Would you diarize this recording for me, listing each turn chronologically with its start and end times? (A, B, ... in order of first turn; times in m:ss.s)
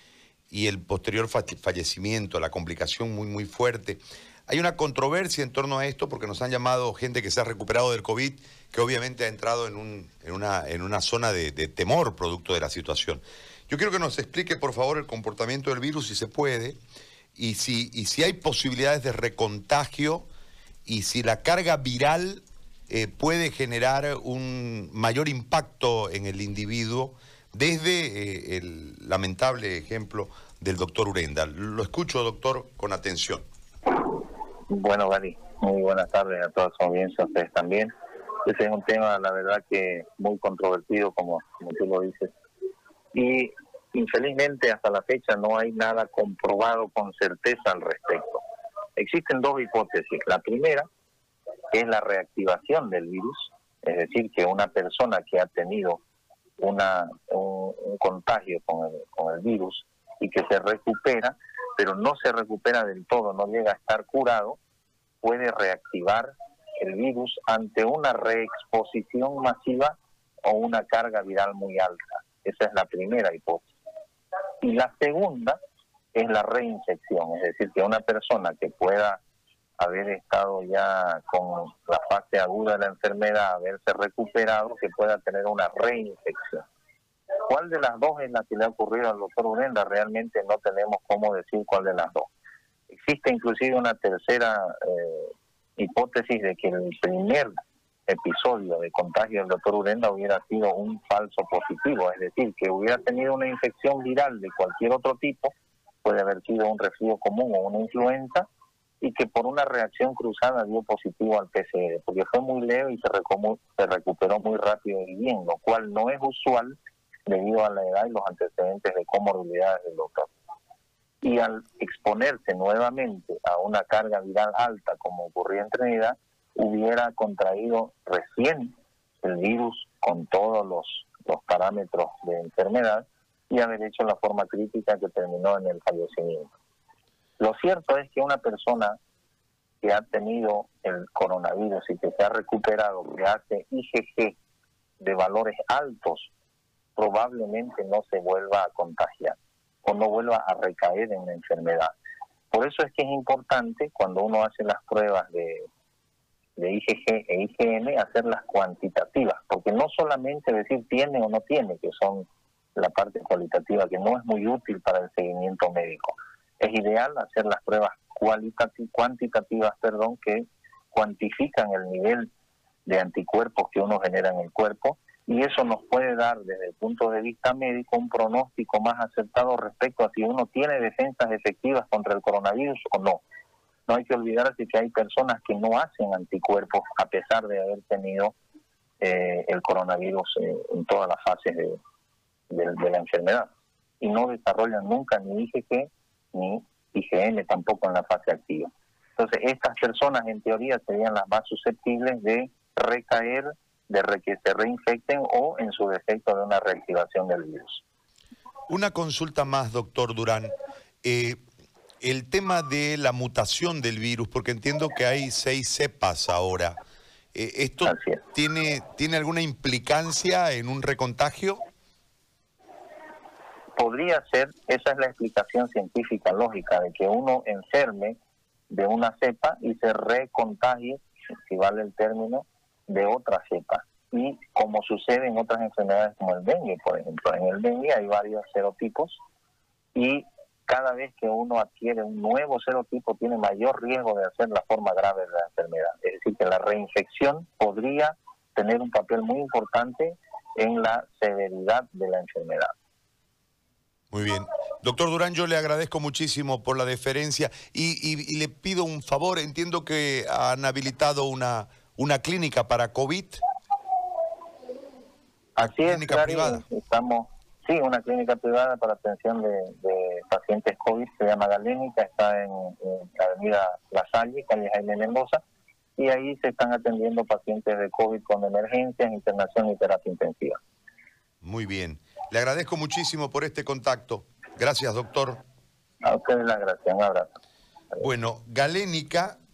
0:00.5-0:16.8 A
0:17.3-0:20.3 A
0:20.8-0:33.4 A
0:34.7-0:37.9 B
0:38.4-0:42.3 B
0:43.1-0:48.4 B
0:49.0-0:50.9 B
0:51.7-0:56.0 B
0:56.6-1:04.6 B
1:05.2-1:13.7 B
1:14.6-1:15.6 B
1:16.1-1:19.2 B
1:19.8-1:26.6 B
1:27.4-1:32.3 B
1:32.9-1:37.5 B
1:38.1-1:45.5 B
1:46.0-1:48.5 B
1:49.0-2:00.3 B
2:01.2-2:16.5 B
2:17.4-2:19.0 B
2:19.8-2:24.4 B
2:25.0-2:26.3 B
2:27.0-2:31.9 B
2:32.5-2:35.7 B
2:36.6-2:52.3 B
2:52.8-3:03.2 B
3:03.9-3:08.3 B
3:09.0-3:11.8 B
3:12.5-3:27.8 B
3:28.7-3:30.5 A
3:31.0-3:31.4 A
3:32.0-3:36.8 A
3:37.3-3:41.6 A
3:37.8-3:38.2 B
3:43.8-3:48.2 B
3:48.7-3:59.2 B
3:59.9-4:12.7 B
4:14.1-4:23.4 A
4:25.6-4:35.4 B
4:25.6-4:26.6 A
4:36.0-4:40.6 B
4:41.4-4:45.4 A
4:46.0-4:47.3 B
4:48.0-4:49.4 A